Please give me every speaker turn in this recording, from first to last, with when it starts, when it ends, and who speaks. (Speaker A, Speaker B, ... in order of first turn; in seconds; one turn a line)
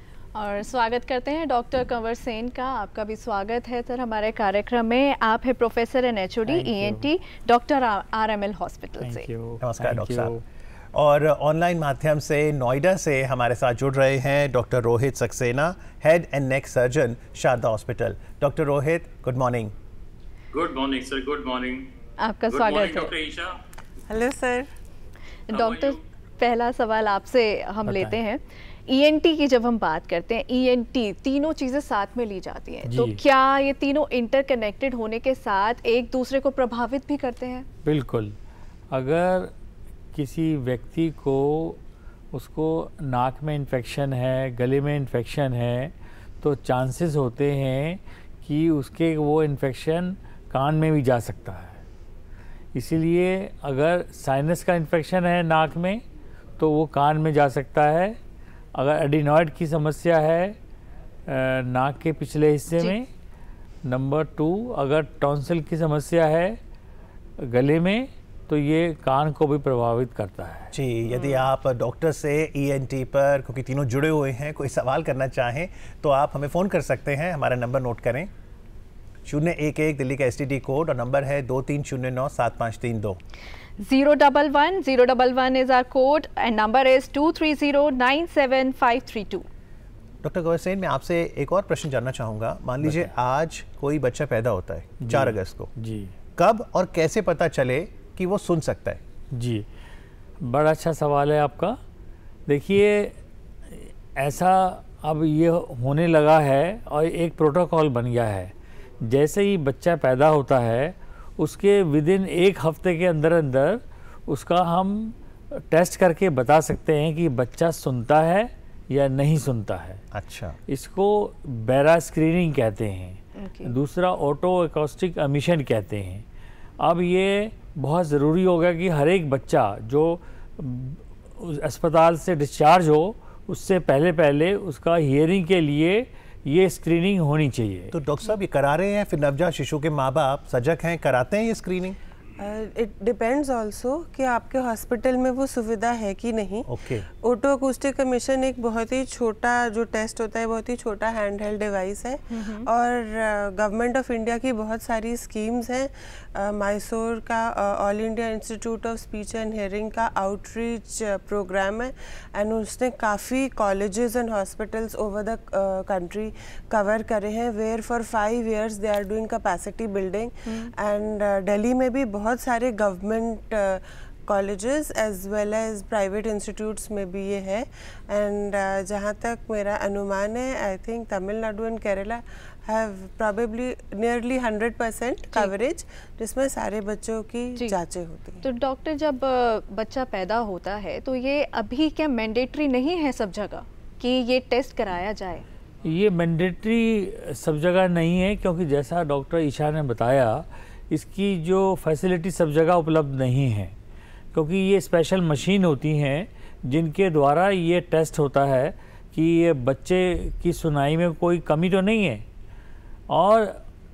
Speaker A: 0.4-9.3
Speaker B: 6.5-7.1
Speaker B: 9.0-10.4
Speaker C: 9.6-10.3
Speaker C: 10.9-19.7
Speaker D: 20.5-21.9
Speaker A: 22.2-23.1
Speaker D: 22.5-23.6
Speaker E: 24.1-24.7
Speaker A: 25.5-37.7
Speaker D: 25.5-26.0
Speaker B: 27.9-28.2
Speaker B: 32.9-33.2
Speaker B: 37.8-38.4
Speaker B: 38.9-39.5
Speaker B: 40.1-41.8
Speaker B: 42.3-51.8
Speaker B: 52.7-56.0
Speaker B: 56.6-58.2
Speaker B: 58.8-60.5
Speaker B: 61.3-63.1
Speaker B: 63.9-66.6
Speaker B: 67.4-70.7
Speaker C: 70.7-78.3
Speaker A: 71.1-71.4
Speaker C: 79.3-83.2
Speaker A: 83.8-89.5
Speaker C: 90.2-95.7
Speaker B: 92.8-93.1
Speaker B: 95.0-96.1
Speaker C: 96.4-99.0
Speaker B: 99.3-99.7
Speaker B: 100.4-101.8
Speaker B: 102.5-103.2
Speaker B: 103.7-120.0
Speaker C: 120.1-120.6
Speaker B: 120.7-126.2
Speaker A: 123.4-123.8
Speaker B: 126.8-137.9
Speaker C: 137.9-142.0
Speaker E: 142.4-146.7
Speaker C: 146.7-147.1
Speaker E: 147.2-188.4
Speaker A: 152.3-152.7
Speaker A: 188.4-195.4
Speaker B: 195.8-203.8
Speaker B: 204.3-212.2
Speaker B: 213.1-213.6